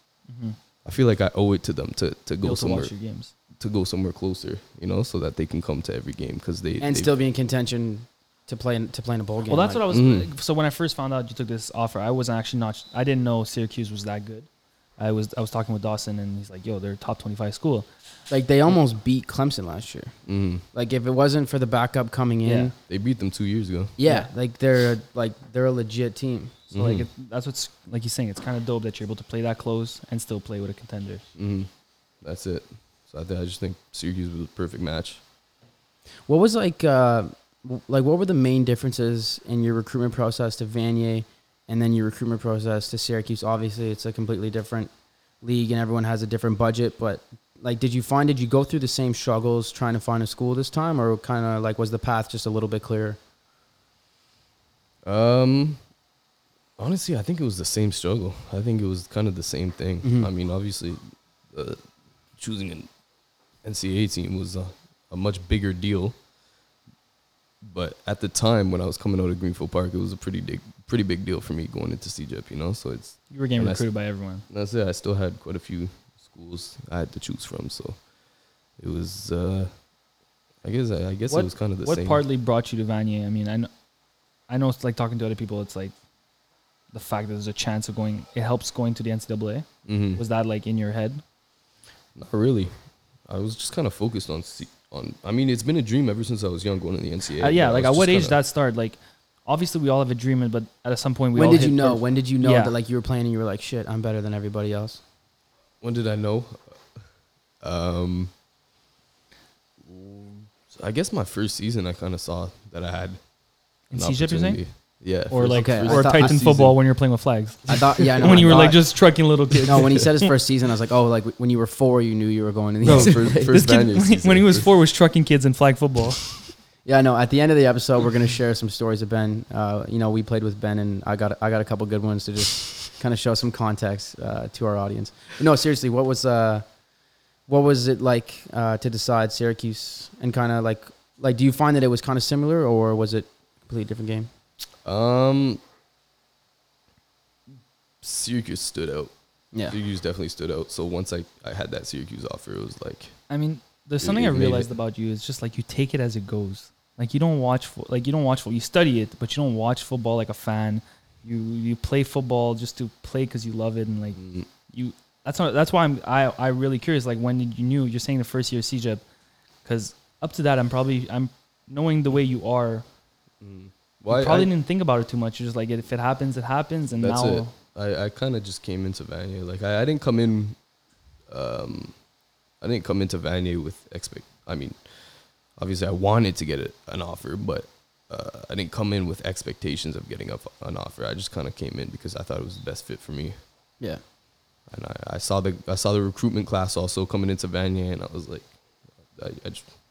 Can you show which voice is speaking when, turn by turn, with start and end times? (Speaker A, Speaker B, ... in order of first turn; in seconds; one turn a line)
Speaker A: 0.3-0.6
Speaker B: 0.8-2.9
Speaker A: 2.4-3.3
Speaker B: 3.6-7.1
Speaker C: 6.8-9.8
Speaker A: 9.5-14.5
Speaker B: 9.9-10.3
Speaker A: 15.0-17.9
Speaker C: 18.3-20.1
Speaker B: 20.3-20.6
Speaker C: 20.7-22.7
Speaker A: 22.4-22.7
Speaker B: 22.9-24.0
Speaker C: 24.0-26.7
Speaker B: 26.7-27.1
Speaker A: 26.7-31.2
Speaker B: 31.4-31.7
Speaker B: 32.2-35.2
Speaker C: 36.3-44.9
Speaker C: 45.4-53.2
Speaker B: 55.0-55.8
Speaker B: 56.8-61.8
Speaker C: 60.0-60.3
Speaker B: 62.4-62.9
Speaker B: 63.6-66.2
Speaker B: 67.6-73.8
Speaker A: 73.3-74.5
Speaker B: 74.5-78.0
Speaker B: 78.8-79.7
Speaker B: 80.6-82.2
Speaker A: 81.3-83.7
Speaker A: 84.5-85.9
Speaker A: 86.9-91.2
Speaker B: 89.9-90.2
Speaker B: 92.2-92.7
Speaker B: 93.3-98.4
Speaker A: 97.4-102.7
Speaker C: 101.3-105.0
Speaker B: 105.8-106.8
Speaker B: 107.6-108.3
Speaker B: 109.9-113.2
Speaker A: 113.9-114.6
Speaker B: 113.9-116.8
Speaker A: 115.3-120.3
Speaker C: 115.5-116.3
Speaker C: 117.7-118.8
Speaker B: 117.7-118.7
Speaker C: 119.6-123.5
Speaker A: 122.8-126.4
Speaker B: 122.8-124.7
Speaker C: 126.8-136.7
Speaker C: 137.5-144.3
Speaker B: 144.8-145.6
Speaker B: 148.0-149.1
Speaker B: 149.7-153.2
Speaker A: 153.3-169.0
Speaker B: 154.0-154.7
Speaker B: 164.2-164.5
Speaker A: 169.7-172.8
Speaker B: 173.4-174.5
Speaker A: 174.1-177.5
Speaker B: 177.0-180.6
Speaker B: 181.3-182.0
Speaker B: 182.6-185.0
Speaker B: 185.6-193.4
Speaker B: 194.7-198.5
Speaker B: 199.1-199.7